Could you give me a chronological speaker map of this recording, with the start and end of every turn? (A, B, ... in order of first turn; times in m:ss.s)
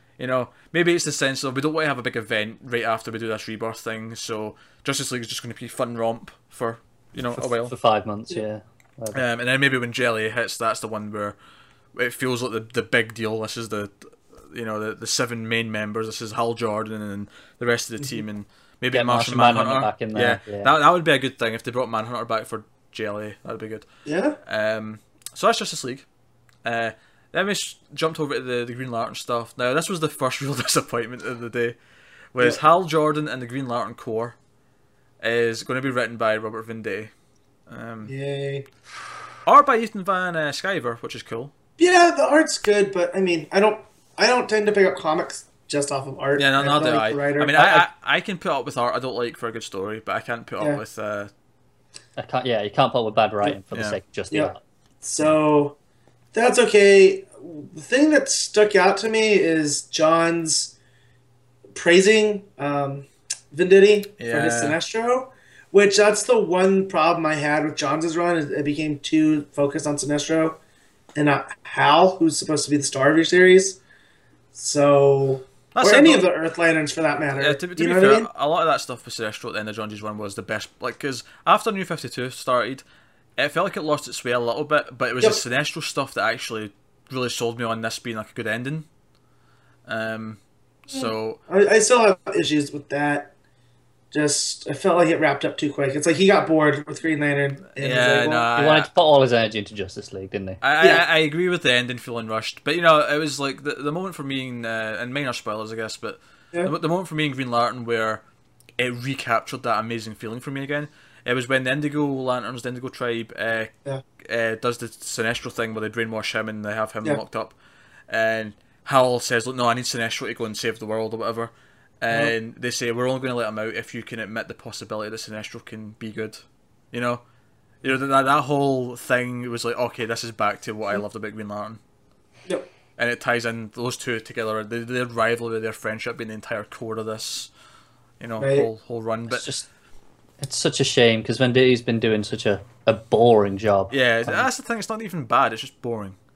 0:00.2-0:07.7 A
0:07.3-0:09.2 B
0:09.1-0:11.4 A
0:11.9-0:23.8 A
0:18.9-0:20.7 B
0:24.0-0:24.4 C
0:24.4-0:26.0 A
0:26.6-0:31.8 A
0:32.3-0:34.4 A
0:35.2-0:37.1 A
0:37.7-0:38.1 A
0:38.1-0:38.6 C
0:39.4-0:41.5 A
0:41.8-0:47.8 C
0:46.4-0:51.3 A
0:52.2-0:54.6 B
0:53.7-0:54.0 A
0:54.3-0:55.8 C
0:56.3-1:00.7 C
1:01.7-1:10.6 C
1:04.2-1:04.8 A
1:11.2-1:13.8 C
1:14.5-1:18.3 C
1:15.7-1:16.2 A
1:17.3-1:22.8 A
1:23.4-1:28.9 A
1:29.8-1:31.4 A
1:30.9-1:33.3 C
1:34.1-1:38.5 C
1:37.8-1:38.9 A
1:38.5-1:40.6 B
1:40.6-1:48.2 A
1:48.8-1:57.5 A
1:58.1-2:07.2 A
2:07.8-2:11.8 A
2:13.0-2:17.5 A
2:18.2-2:19.4 A
2:18.4-2:18.7 C
2:19.3-2:19.7 B
2:20.4-2:24.5 B
2:23.9-2:26.2 A